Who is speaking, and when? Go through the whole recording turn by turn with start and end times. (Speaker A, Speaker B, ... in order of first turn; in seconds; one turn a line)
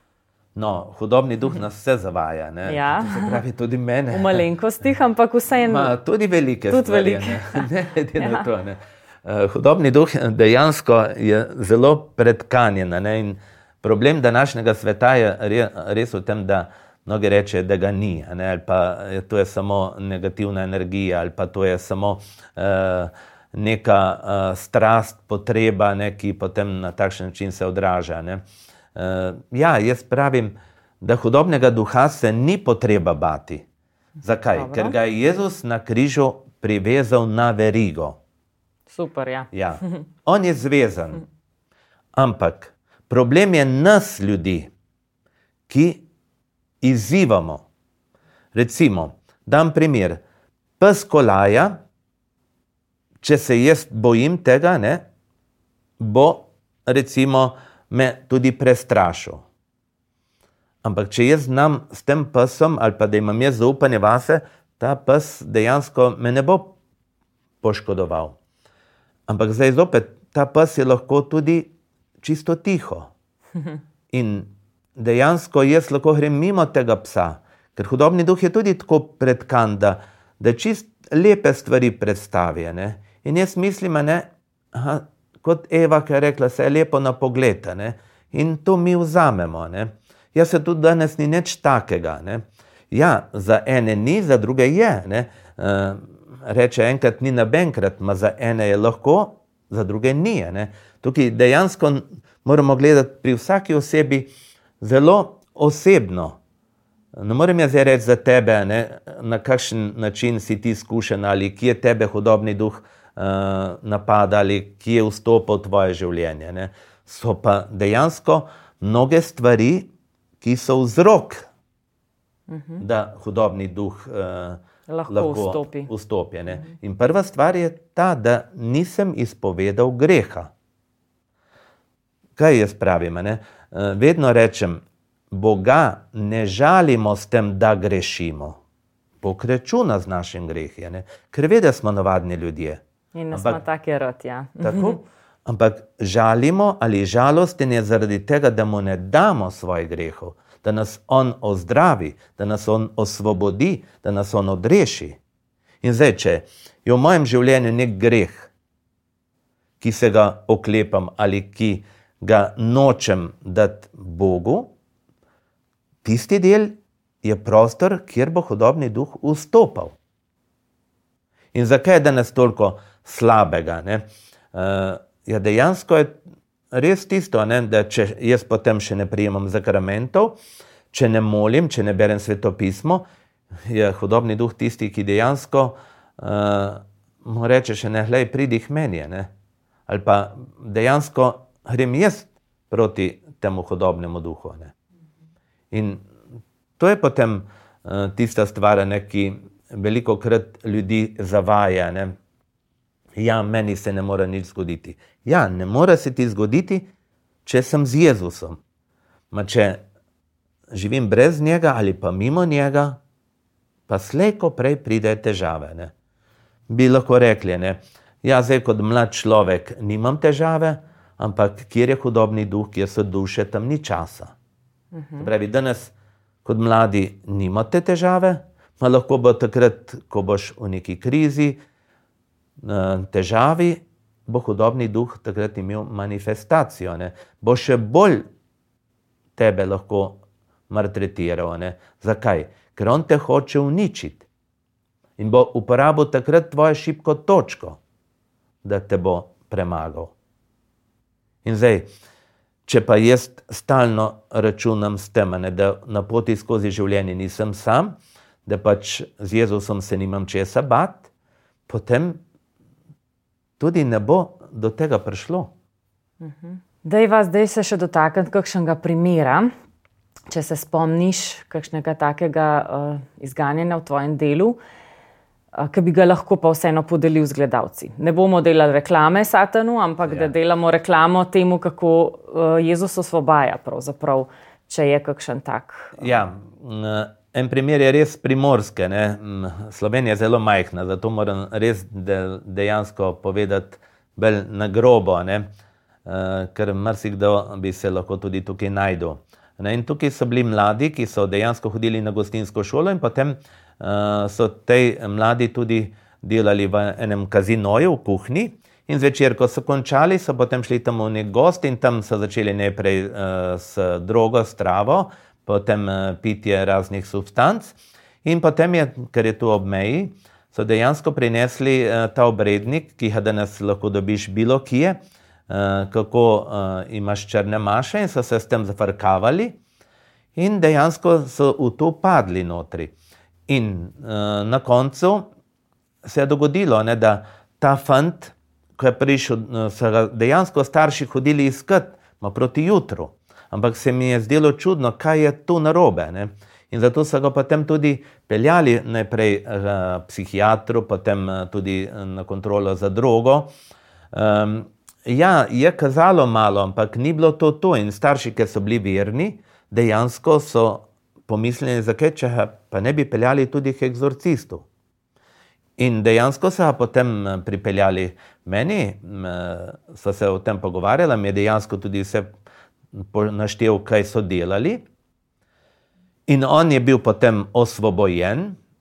Speaker A: 0.5-4.4
Speaker B: 2.7-3.4
Speaker B: 4.1-5.9
Speaker A: 5.6-28.4
Speaker B: 6.7-7.7
Speaker B: 8.2-8.4
Speaker A: 28.9-33.6
Speaker A: 34.2-38.2
Speaker B: 34.5-34.9
Speaker B: 38.9-40.0
Speaker A: 39.5-41.2
Speaker A: 42.1-44.7
Speaker A: 45.7-46.0
Speaker A: 46.8-47.6
Speaker A: 48.5-50.2
Speaker A: 50.8-51.8
Speaker A: 53.2-55.0
Speaker A: 56.0-59.4
Speaker A: 60.8-66.8
Speaker A: 67.6-68.3
Speaker A: 69.3-73.1
Speaker A: 74.1-104.3
Speaker A: 104.8-106.4
Speaker A: 107.2-119.9
Speaker A: 120.4-121.5
Speaker B: 122.5-122.8
Speaker A: 122.8-130.5
Speaker B: 124.9-125.9
Speaker A: 132.4-138.6
Speaker A: 139.2-142.8
Speaker B: 143.1-145.0
Speaker A: 143.3-143.6
Speaker A: 144.6-155.2
Speaker A: 155.8-158.5
Speaker A: 159.8-164.7
Speaker A: 166.0-169.9
Speaker A: 171.5-176.2
Speaker A: 176.7-180.3
Speaker A: 180.9-183.0
Speaker A: 183.7-189.3
Speaker A: 189.9-194.7
Speaker A: 195.7-196.0
Speaker A: 196.8-202.1
Speaker A: 203.2-206.9
Speaker A: 207.4-208.6
Speaker A: 209.3-209.8
Speaker A: 210.7-213.0
Speaker A: 213.9-215.9
Speaker A: 216.7-224.3
Speaker B: 224.9-225.3
Speaker A: 225.2-225.9
Speaker A: 226.4-231.6
Speaker A: 232.6-238.2
Speaker A: 239.3-244.2
Speaker A: 245.2-247.8
Speaker A: 248.6-250.1
Speaker A: 251.4-251.9
Speaker A: 252.7-261.1
Speaker A: 261.7-262.2
Speaker A: 263.6-265.5
Speaker B: 266.2-269.5
Speaker B: 270.3-274.6
Speaker B: 275.5-286.0
Speaker A: 280.1-280.3
Speaker A: 286.0-295.5
Speaker A: 296.0-329.6
Speaker A: 330.4-332.9
Speaker A: 333.5-335.3
Speaker A: 336.0-353.5
Speaker A: 354.1-364.7
Speaker A: 365.8-372.3
Speaker A: 372.9-374.8
Speaker A: 376.3-378.6